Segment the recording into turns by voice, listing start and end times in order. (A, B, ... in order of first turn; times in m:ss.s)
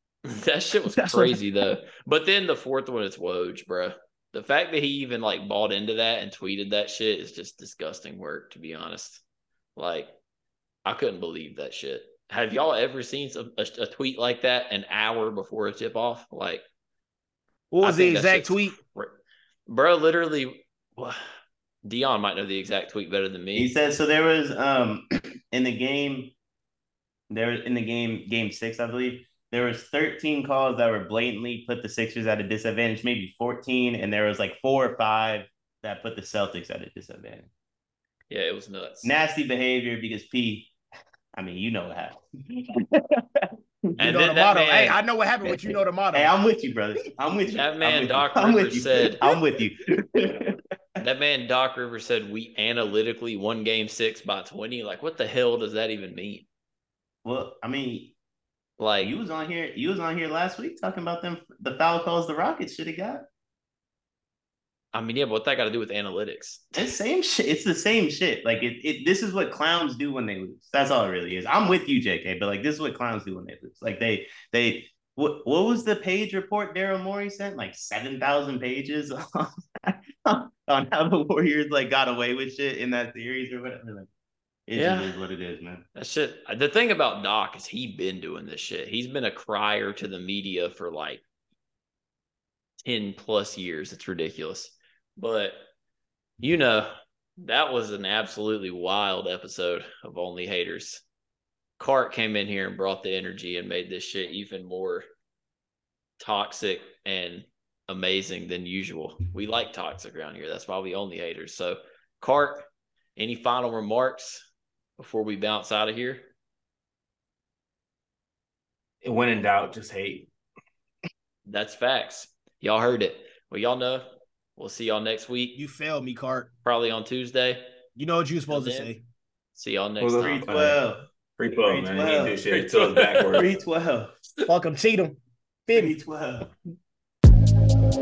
0:00.2-0:09.2 A
0:00.9-0:01.4 B
0:09.8-0:10.1 A
0:10.8-0:16.6 A
0:17.7-0:18.8 C
0:17.8-0:21.2 A
0:21.8-0:23.7 A
0:23.6-0:26.3 B
0:27.3-0:37.5 B
0:38.3-0:39.1 A
0:39.0-0:40.7 B
0:41.4-0:43.5 B
0:44.0-0:45.0 A
0:44.0-0:46.3 C
0:45.4-0:50.6 B
0:47.6-0:49.2 A
0:51.0-0:56.5 A
0:57.2-0:58.2 B
0:58.8-0:59.1 A
0:59.0-1:03.2 B
1:04.9-1:06.8 A
1:06.8-1:24.1 B
1:24.7-1:25.8 B
1:24.7-1:25.2 A
1:26.0-1:31.2 A
1:32.8-1:35.6 A
1:36.4-1:41.0 A
1:41.8-1:45.0 A
1:46.2-1:54.5 A
1:55.0-1:56.3 A
1:59.0-2:00.3 D
2:01.5-2:05.6 A
2:05.6-2:06.5 C
2:06.6-2:07.6 A
2:08.0-2:09.0 C
2:08.5-2:08.9 A
2:09.6-2:10.4 A
2:10.0-2:10.8 D
2:10.2-2:12.4 B
2:11.4-2:13.6 D
2:12.5-2:13.4 A
2:13.3-2:14.1 B
2:14.5-2:15.9 C
2:15.7-2:16.5 B